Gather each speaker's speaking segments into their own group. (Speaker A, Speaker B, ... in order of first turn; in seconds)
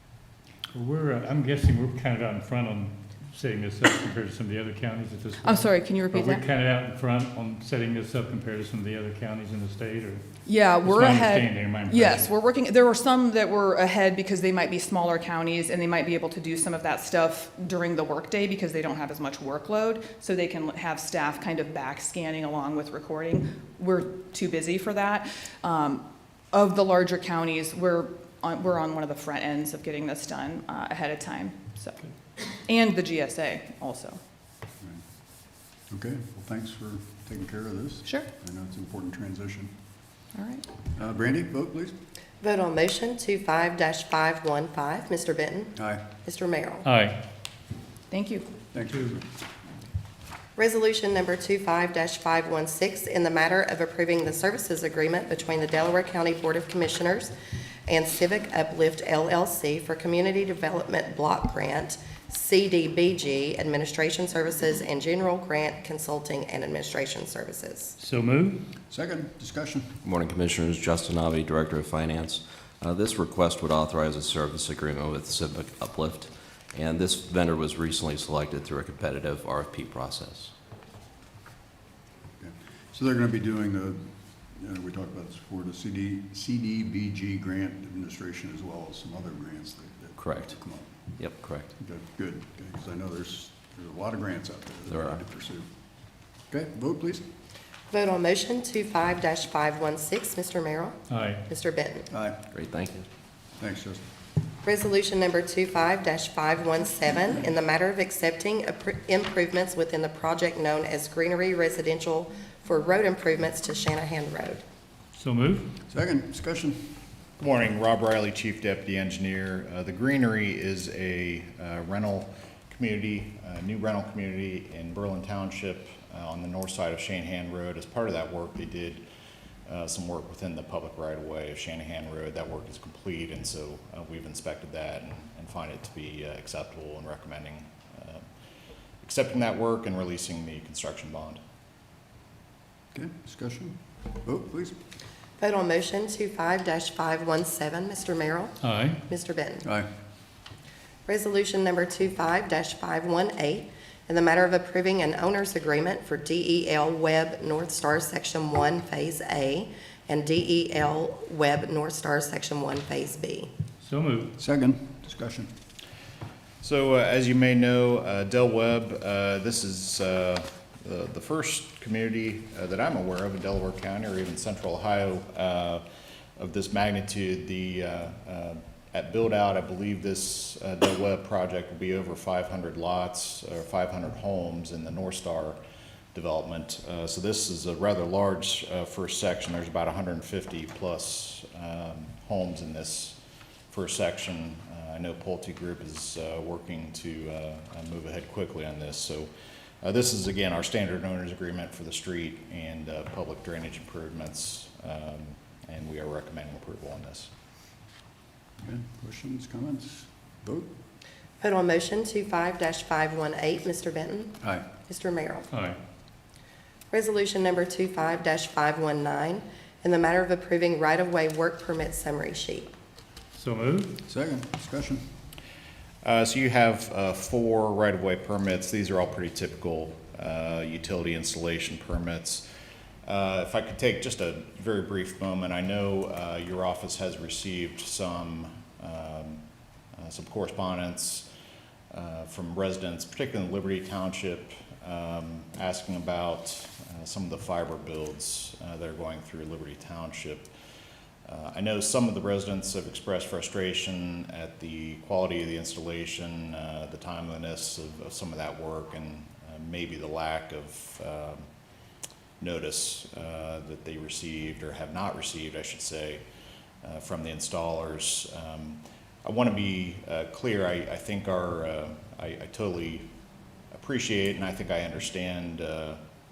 Speaker A: 0.7-10.2, 10.8-12.3, 46.9-47.2, 68.0-68.6, 101.1-101.4, 115.2-115.7, 148.6-149.0, 163.8-164.3, 215.5-215.8, 223.3-223.9
Speaker B: 5.4-6.4, 10.5-32.0, 32.6-34.2, 40.3-40.7, 48.1-48.5
Speaker C: 35.9-39.7, 41.0-41.9, 45.8-46.0, 48.7-49.3, 68.9-69.9, 82.4-91.0, 91.8-95.7, 96.5-97.2, 102.1-102.4, 103.6-104.0, 115.9-116.8, 142.9-144.8, 164.4-165.5, 208.6-210.7, 224.1-225.0
Speaker D: 42.4-46.9, 50.6-57.3, 57.9-68.0, 97.9-101.0, 101.5-102.1, 104.6-114.6, 145.4-149.7, 151.1-163.5, 211.4-214.4, 214.9-215.5, 216.9-222.7
Speaker E: 70.0-80.5, 90.2-90.5, 91.2-91.7, 94.9-95.2, 102.5-103.1
Speaker F: 117.4-129.0, 129.7-138.2, 139.0-141.4, 166.6-175.8, 176.4-185.6, 186.1-193.2, 193.7-199.3, 199.8-207.3, 226.0-232.4, 233.1-239.4, 240.0-241.3, 241.9-250.5, 251.3-261.4, 262.4-266.2, 266.8-273.1, 273.7-276.0